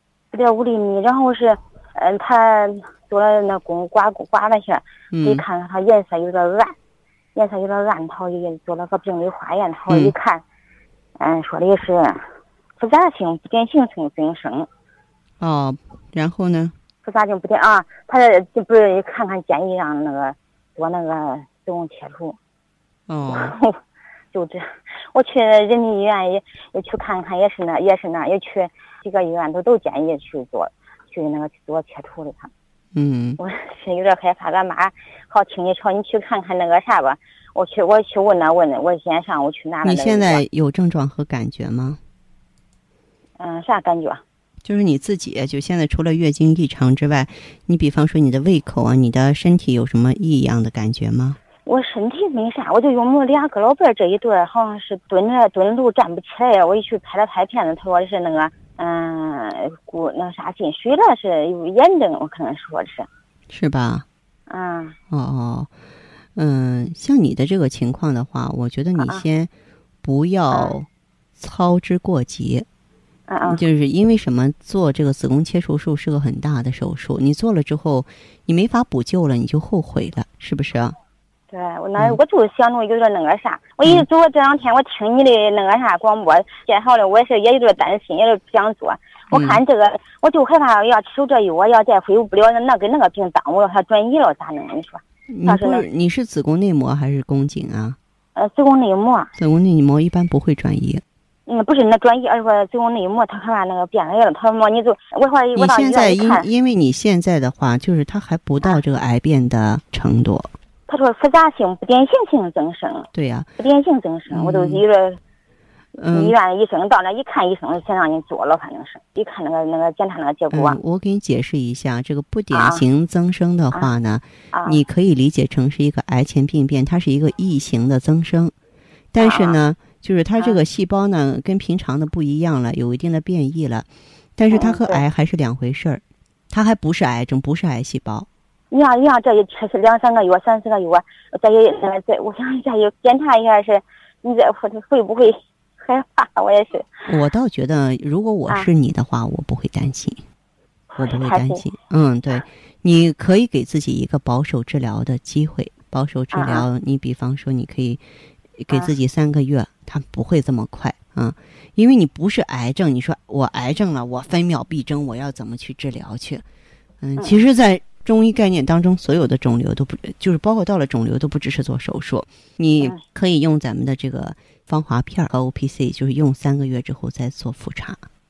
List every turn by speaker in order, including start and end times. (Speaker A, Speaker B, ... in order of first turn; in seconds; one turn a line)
Speaker A: 0.3-6.8
Speaker B: 5.1-5.5
Speaker A: 7.3-10.4
Speaker A: 11.2-12.3
Speaker A: 12.8-14.7
Speaker B: 15.4-16.7
Speaker A: 17.0-22.4
Speaker B: 23.1-23.5
Speaker A: 23.3-23.8
Speaker A: 24.3-32.5
Speaker B: 33.0-33.4
Speaker A: 33.4-40.4
Speaker B: 39.8-42.0
Speaker A: 43.4-44.2
Speaker B: 44.6-51.4
Speaker A: 51.6-63.1
Speaker B: 63.5-64.0
Speaker A: 64.5-65.0
Speaker B: 65.1-65.7
Speaker B: 66.4-69.5
Speaker A: 69.0-69.2
Speaker B: 70.0-70.9
Speaker B: 71.4-72.7
Speaker A: 73.3-73.6
Speaker B: 73.4-81.0
Speaker A: 81.5-95.8
Speaker B: 89.3-89.6
Speaker B: 95.3-98.0
Speaker A: 98.4-99.3
Speaker B: 99.4-101.0
Speaker A: 101.5-106.5
Speaker B: 105.5-110.5
Speaker A: 110.9-113.1
Speaker B: 113.1-113.5
Speaker A: 113.6-115.2
Speaker B: 114.3-114.8
Speaker B: 116.0-116.3
Speaker A: 116.1-120.8
Speaker B: 120.5-128.5
Speaker A: 122.5-122.8
Speaker A: 124.5-124.8
Speaker B: 129.1-138.3
Speaker A: 129.2-129.6
Speaker A: 134.5-135.0
Speaker A: 138.7-146.9
Speaker B: 147.1-150.2
Speaker A: 151.0-151.6
Speaker B: 151.0-158.0
Speaker A: 156.3-156.7
Speaker B: 158.6-166.4
Speaker B: 167.0-178.1